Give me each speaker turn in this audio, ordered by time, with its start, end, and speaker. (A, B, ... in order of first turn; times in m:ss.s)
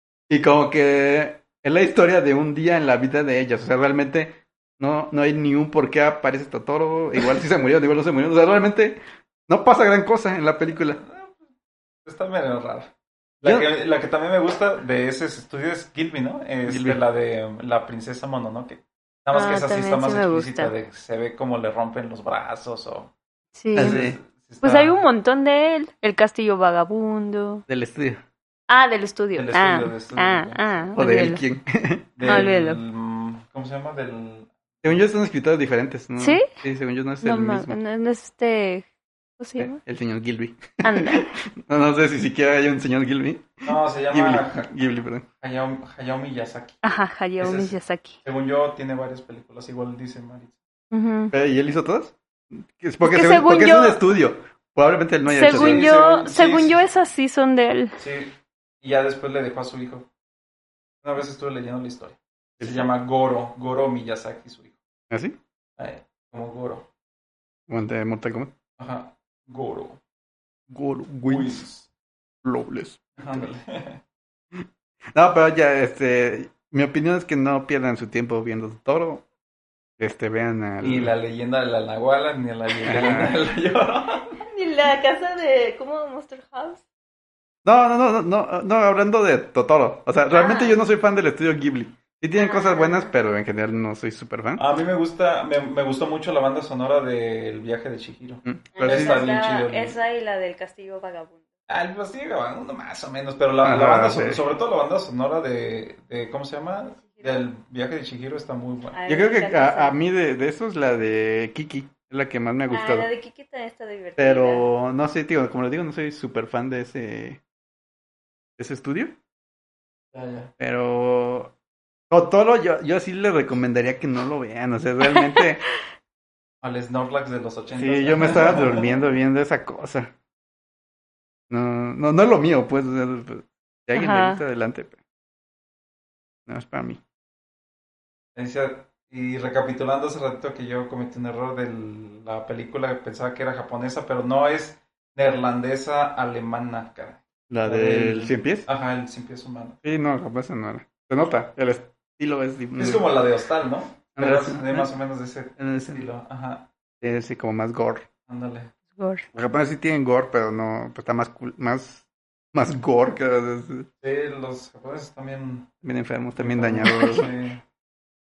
0:00.3-0:11.0 A
0:11.0-0:11.5 B
0:12.0-0:23.1 B
0:16.7-0:17.0 A
0:19.3-0:20.7 C
0:23.6-0:24.0 C
0:23.7-0:24.2 A
0:23.7-0:25.0 B
0:24.6-0:27.6 C
0:27.7-0:28.2 A
0:28.7-0:31.4 C
0:29.3-0:30.9 B
0:31.0-0:32.5 A
0:32.2-0:35.0 B
0:32.2-0:32.8 C
0:34.8-0:37.8 A
0:36.2-0:36.5 C
0:37.2-0:38.9 C
0:39.4-0:39.8 C
0:39.6-0:45.3 A
0:40.8-0:41.3 C
0:43.7-0:44.7 B
0:45.4-0:46.8 B
0:46.8-0:48.2 C
0:47.4-0:50.6 B
0:50.9-0:51.3 C
0:51.3-0:55.9 A
0:53.0-0:54.0 C
0:55.3-0:58.0 C
0:55.4-0:56.8 B
0:58.0-1:00.1 B
1:01.0-1:04.8 B
1:02.6-1:02.9 A
1:05.1-1:05.4 A
1:05.8-1:06.9 B
1:07.7-1:08.5 A
1:08.8-1:10.0 B
1:10.7-1:11.6 A
1:11.3-1:11.9 B
1:12.4-1:13.4 A
1:13.2-1:14.0 B
1:14.6-1:19.2 A
1:20.0-1:21.1 A
1:20.8-1:24.4 B
1:22.8-1:23.4 A
1:24.4-1:26.8 C
1:27.6-1:34.6 A
1:30.3-1:30.8 C
1:32.4-1:33.1 C
1:34.6-1:40.0 B
1:38.4-1:39.2 A
1:38.8-1:41.4 C
1:41.7-1:49.0 B
1:43.6-1:44.4 A
1:47.1-1:47.4 C
1:48.9-1:50.0 C
1:49.1-1:53.1 A
1:52.7-1:54.7 C
1:54.2-1:57.4 A
1:58.6-1:59.2 A
2:00.1-2:00.5 B
2:00.6-2:01.5 A
2:02.1-2:05.7 A
2:05.1-2:05.4 C
2:06.6-2:09.0 B
2:07.8-2:10.1 A
2:11.5-2:15.0 A
2:13.9-2:14.4 C
2:16.5-2:17.0 A
2:18.4-2:29.8 B
2:27.5-2:28.7 A
2:29.8-2:33.2 A
2:32.8-2:36.7 B
2:34.2-2:34.9 A
2:35.6-2:36.1 A
2:37.0-2:38.1 A
2:38.3-2:38.7 B
2:39.0-2:39.3 C
2:39.3-2:43.9 A
2:44.0-2:45.7 B
2:45.8-2:47.3 A
2:46.4-2:47.6 B